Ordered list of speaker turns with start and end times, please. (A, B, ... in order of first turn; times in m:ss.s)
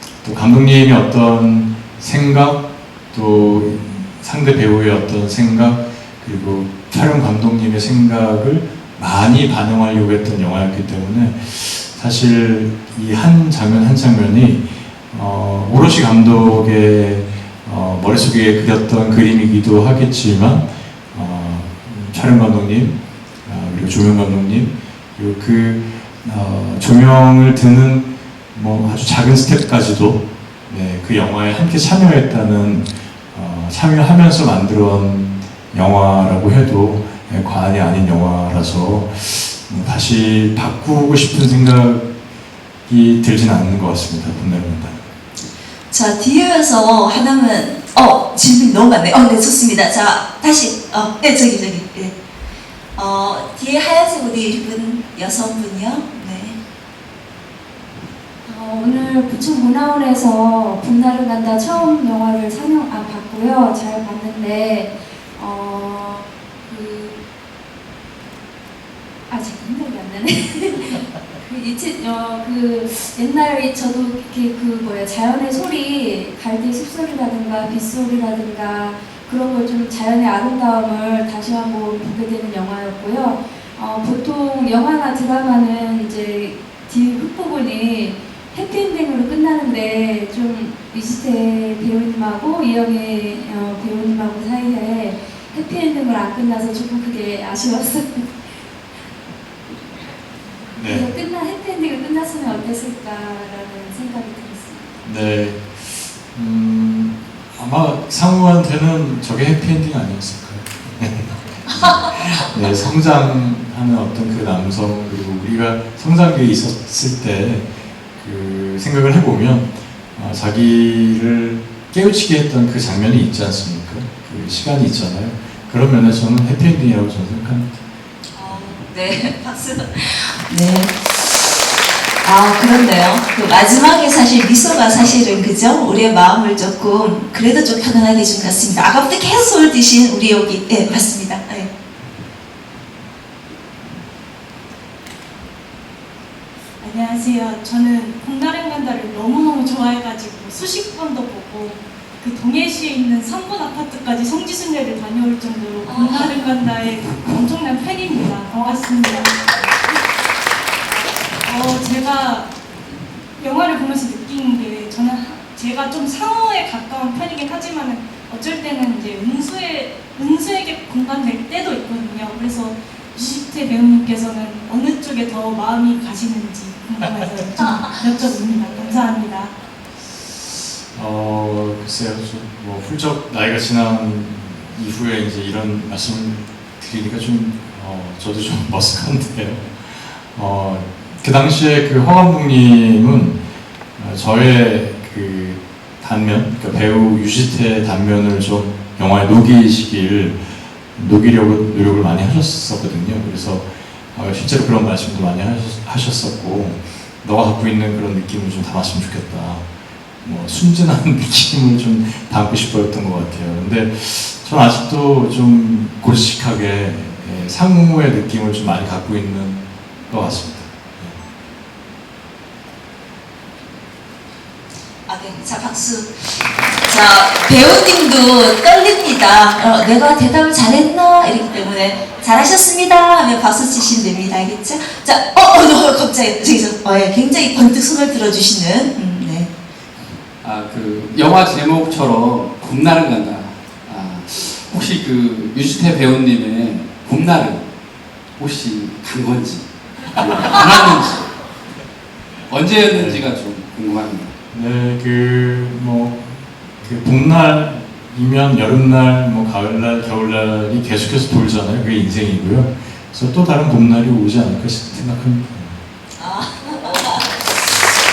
0:00.2-0:42.1 A
0:42.9-0:45.0 A
0:45.9-0:52.1 B
0:53.0-0:56.6 B
0:58.5-1:07.2 C
1:09.3-1:38.5 C
1:39.7-1:45.0 C
1:40.7-1:41.1 A
1:45.0-2:07.7 A
2:08.4-2:11.6 B
2:12.2-2:21.7 B
2:26.8-2:39.4 D
2:41.4-2:42.5 D
2:43.4-2:59.6 D
3:00.9-3:13.4 A
3:14.0-3:29.6 A
3:30.2-3:41.2 A
3:45.1-3:59.5 B
4:00.4-4:07.6 E
4:08.4-4:11.3 E
4:12.5-4:14.3 E
4:12.9-4:13.3 A
4:14.5-4:25.8 A
4:26.2-4:27.9 B